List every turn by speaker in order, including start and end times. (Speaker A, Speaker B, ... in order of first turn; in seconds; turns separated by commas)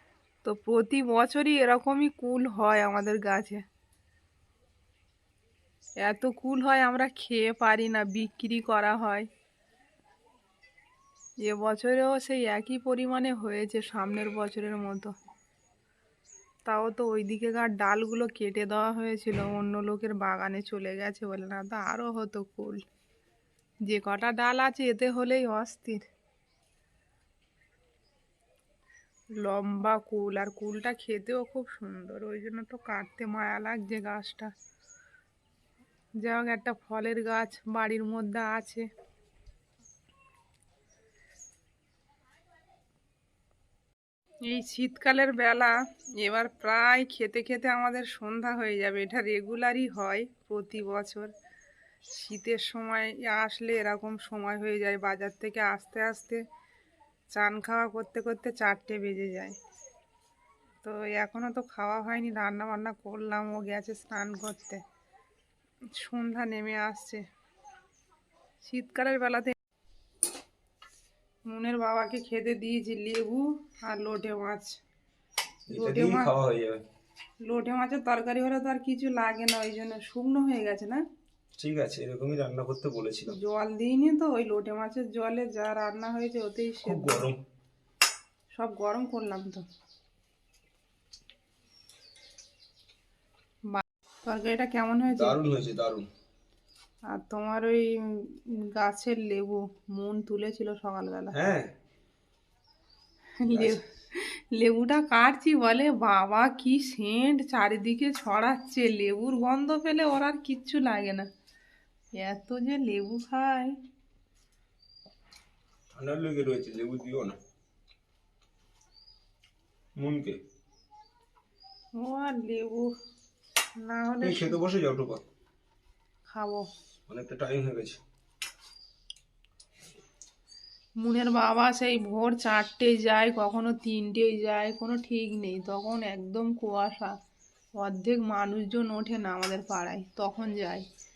Speaker A: 0.4-3.6, Speaker A: 6.0-9.3, Speaker A: 11.4-15.1, Speaker A: 16.6-22.8, Speaker A: 23.9-26.0, Speaker A: 29.4-34.5, Speaker A: 36.2-38.9, Speaker A: 44.5-51.3, Speaker A: 52.1-56.4, Speaker A: 57.3-59.6, Speaker A: 60.8-64.8, Speaker A: 66.0-67.2, Speaker A: 68.6-69.5, Speaker A: 71.5-74.8, Speaker B: 75.7-76.8, Speaker A: 75.7-76.3, Speaker A: 77.5-81.0, Speaker B: 81.6-83.4, Speaker A: 83.3-87.3, Speaker B: 86.8-87.4, Speaker A: 88.5-89.7, Speaker A: 93.7-95.4, Speaker B: 95.1-96.1, Speaker A: 97.1-101.3, Speaker B: 101.3-101.7, Speaker A: 103.4-111.3, Speaker B: 103.5-103.8, Speaker A: 112.2-113.7, Speaker B: 115.9-117.4, Speaker B: 120.0-120.4, Speaker A: 122.0-122.9, Speaker A: 123.8-124.6, Speaker B: 124.2-125.2, Speaker A: 126.3-126.7, Speaker B: 127.1-128.0, Speaker A: 131.0-137.1, Speaker A: 137.8-140.8